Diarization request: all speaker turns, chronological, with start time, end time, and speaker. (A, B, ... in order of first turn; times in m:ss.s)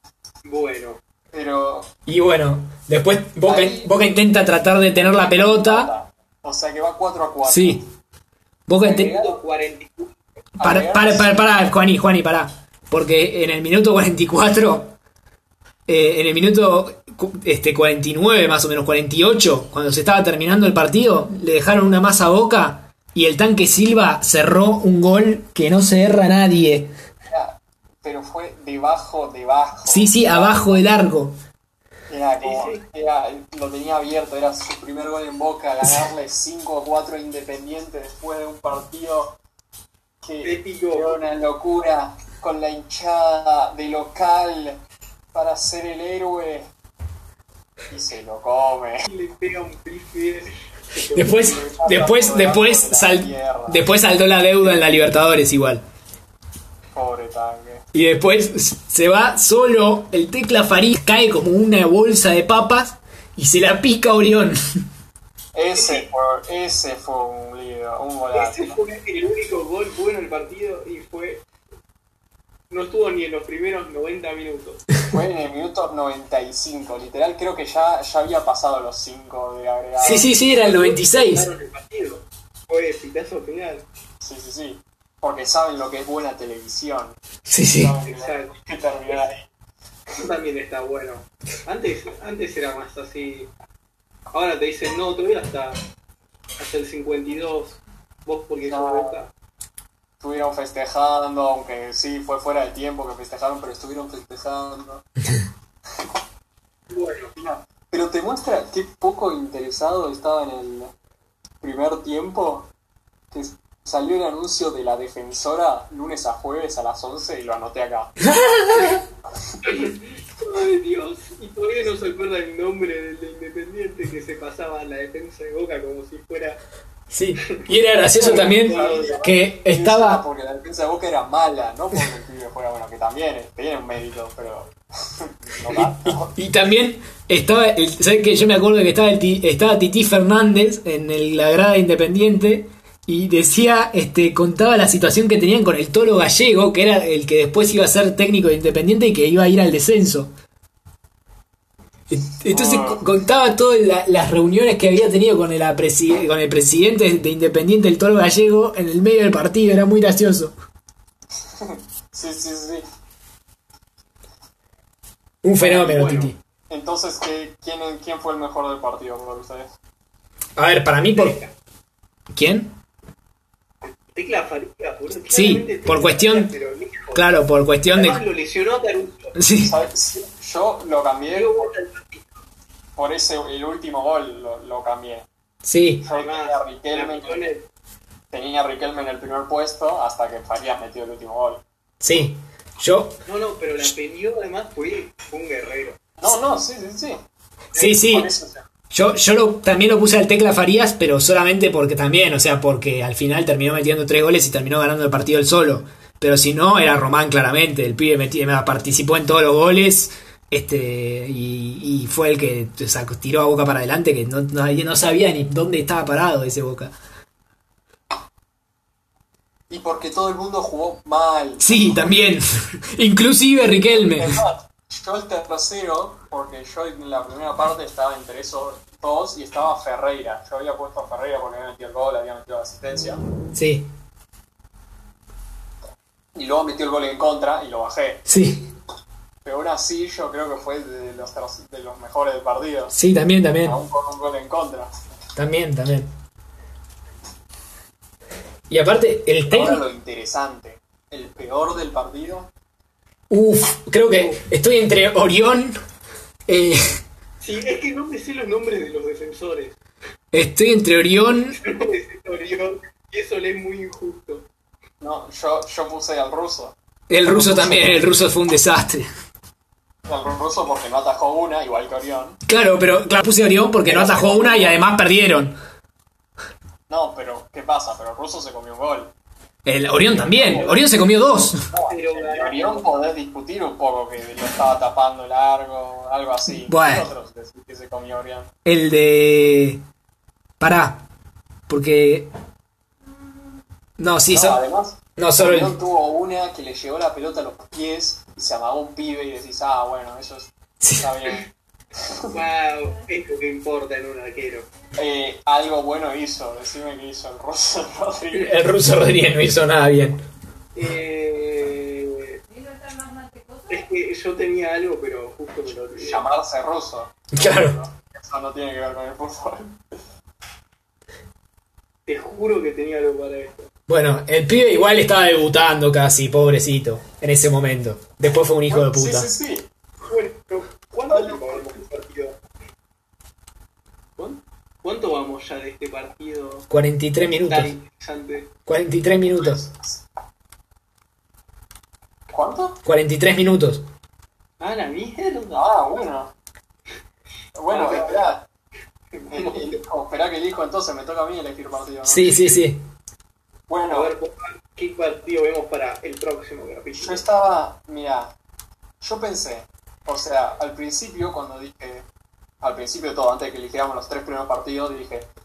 0:00.4-0:01.0 A
0:01.3-0:01.9 B
0:02.1-0:05.9 C
0:03.5-0:04.0 B
0:05.0-0:07.8 B
0:07.5-0:07.8 C
0:08.7-0:09.2 C
0:08.8-0:09.4 B
0:09.0-0:10.2 A
0:10.6-0:11.4 B
0:10.6-0:15.0 C
0:15.9-0:26.9 C
0:27.2-0:30.8 B
0:29.9-0:31.4 C
0:32.1-0:39.4 B
0:32.4-0:32.8 A
0:40.2-0:44.8 B
0:40.4-0:41.2 A
0:45.3-0:46.7 B
0:47.9-0:49.1 B
0:49.1-0:51.4 A
0:51.1-0:55.8 C
0:51.3-0:53.8 B
0:56.9-0:57.8 B
0:57.9-1:04.6 C
1:05.5-1:08.8 B
1:05.7-1:06.1 A
1:08.3-1:11.4 A
1:12.7-1:14.8 A
1:15.1-1:20.3 B
1:20.0-1:21.5 C
1:20.5-1:23.8 A
1:24.2-1:27.2 B
1:27.4-1:28.0 C
1:27.7-1:29.4 B
1:28.1-1:28.5 A
1:30.1-1:33.5 A
1:34.3-1:35.8 A
1:36.6-1:39.3 A
1:38.6-1:39.2 B
1:40.2-1:45.0 B
1:46.9-1:47.3 A
1:47.4-1:50.9 B
1:51.6-1:52.7 B
1:53.3-1:58.2 B
1:58.2-1:59.0 C
1:59.6-2:06.6 A
2:07.1-2:10.2 C
2:08.2-2:16.3 B
2:08.2-2:09.2 A
2:15.7-2:30.3 C
2:32.1-2:40.5 C
2:32.5-2:33.0 B
2:41.4-2:42.8 B
2:45.4-2:46.4 C
2:45.6-2:49.7 B
2:50.6-2:51.4 C
2:51.2-2:51.5 A
2:52.3-2:52.8 C
2:53.8-2:57.3 A
2:55.3-2:56.5 C
2:57.1-2:58.2 C
2:57.9-2:59.4 A
2:59.4-2:59.7 C
2:59.6-3:01.7 B
3:01.3-3:02.3 A
3:03.0-3:05.3 B
3:05.6-3:06.0 C
3:06.0-3:07.4 B
3:06.1-3:07.6 A
3:08.3-3:11.6 B
3:12.0-3:13.2 C
3:13.2-3:16.0 A
3:16.2-3:17.2 B
3:17.8-3:18.3 C
3:17.8-3:18.6 B
3:18.9-3:36.9 C
3:39.7-3:42.1 B
3:41.6-3:44.4 C
3:43.9-3:53.2 B
3:53.5-3:53.9 C
3:56.4-3:58.2 B
3:58.3-3:58.7 C
3:59.4-4:02.9 B
4:02.9-4:03.8 C
4:03.6-4:04.9 B
4:05.4-4:06.1 C
4:08.7-4:09.8 C
4:09.5-4:12.5 B
4:13.3-4:15.8 C
4:14.1-4:14.4 A
4:16.5-4:16.8 C
4:17.4-4:19.8 A
4:20.3-4:21.6 C
4:21.6-4:24.5 A
4:25.0-4:28.1 B
4:27.1-4:29.1 C
4:30.1-4:32.4 B
4:32.5-4:35.6 C
4:33.9-4:34.8 B
4:36.9-4:39.1 B
4:39.7-4:41.6 C
4:40.1-4:40.8 B
4:40.4-4:40.8 A
4:41.7-4:48.5 B
4:41.9-4:42.9 A
4:46.6-4:47.1 C
4:48.6-4:49.8 C
4:50.6-4:51.1 C
4:51.7-4:52.3 C
4:54.0-4:54.6 C
4:54.3-5:02.4 B
4:55.2-4:55.8 C
5:00.8-5:01.1 C
5:02.3-5:04.7 A
5:05.0-5:08.6 B
5:08.4-5:10.2 C
5:10.8-5:12.4 A
5:13.7-5:16.3 A
5:16.0-5:19.8 B
5:17.4-5:17.8 C
5:22.1-5:23.7 A
5:23.9-5:29.3 C
5:28.7-5:29.7 B
5:30.0-5:32.4 A
5:31.1-5:31.8 B
5:34.2-5:36.7 A
5:36.7-5:37.7 C
5:37.4-5:38.5 A
5:38.7-5:39.6 C
5:39.4-5:40.0 B
5:42.3-5:42.8 B
5:42.8-5:43.8 C
5:44.6-5:45.8 A
5:45.5-5:46.3 B
5:47.6-5:48.4 B
5:47.7-5:48.3 A
5:49.2-5:49.8 A
5:49.3-5:52.6 B
5:52.0-5:52.8 C
5:53.7-5:54.1 B
5:53.9-5:57.2 A
5:56.9-5:58.3 B
5:59.0-6:02.1 B
6:02.6-6:05.3 B